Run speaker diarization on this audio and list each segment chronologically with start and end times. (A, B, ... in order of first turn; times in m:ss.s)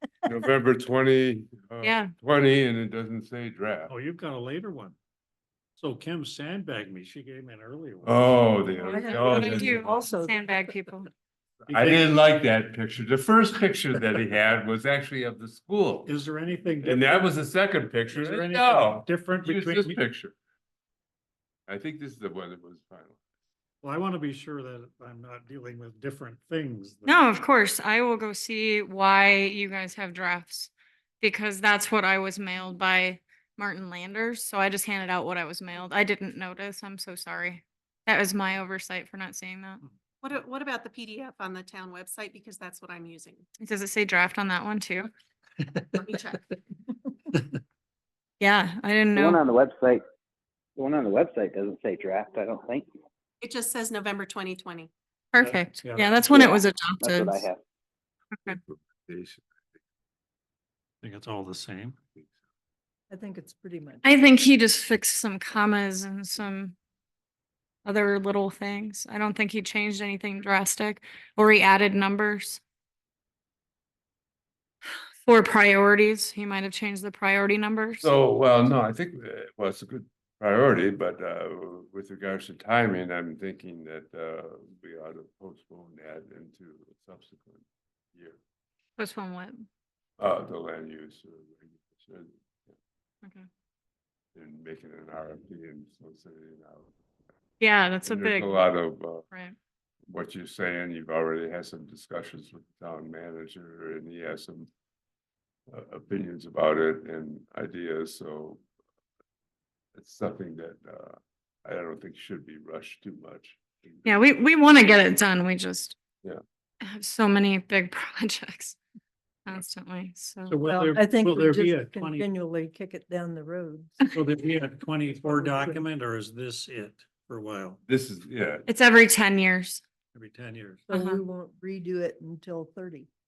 0:00.2-0:03.9 A
0:01.8-0:02.1 B
0:03.9-0:05.0 C
0:05.8-0:08.4 C
0:08.0-0:09.9 A
0:08.8-0:10.7 D
0:08.9-0:11.1 B
0:11.7-0:12.2 C
0:11.7-0:16.1 A
0:16.0-0:17.3 C
0:16.8-0:20.4 A
0:18.1-0:20.0 C
0:21.7-0:23.2 A
0:23.8-0:27.2 C
0:27.0-0:39.8 B
0:40.2-0:43.4 E
0:43.6-0:45.1 B
0:45.6-0:45.9 C
0:45.9-0:46.4 E
0:47.3-0:47.6 C
0:48.4-0:49.4 B
0:49.1-0:50.0 F
0:50.8-0:52.8 F
0:53.4-0:54.9 E
0:55.3-0:57.5 B
0:55.4-0:56.4 C
0:56.3-0:57.6 F
0:58.6-0:59.4 A
1:01.0-1:02.0 C
1:03.1-1:04.0 D
1:04.0-1:06.7 B
1:07.8-1:12.6 B
1:15.2-1:18.1 B
1:18.0-1:27.6 A
1:29.0-1:29.6 B
1:30.2-1:32.8 A
1:34.3-1:37.0 A
1:37.6-1:38.6 B
1:38.0-1:39.3 A
1:39.3-1:39.6 B
1:40.1-1:44.7 A
1:45.7-1:48.6 A
1:49.9-1:54.3 A
1:54.0-1:56.0 B
1:56.8-1:58.8 B
1:59.4-2:00.6 B
2:00.4-2:02.3 C
2:00.7-2:04.1 D
2:04.1-2:07.8 C
2:05.3-2:05.8 D
2:07.9-2:08.7 A
2:08.7-2:09.8 B
2:10.1-2:10.9 C
2:10.9-2:13.1 D
2:10.9-2:11.2 B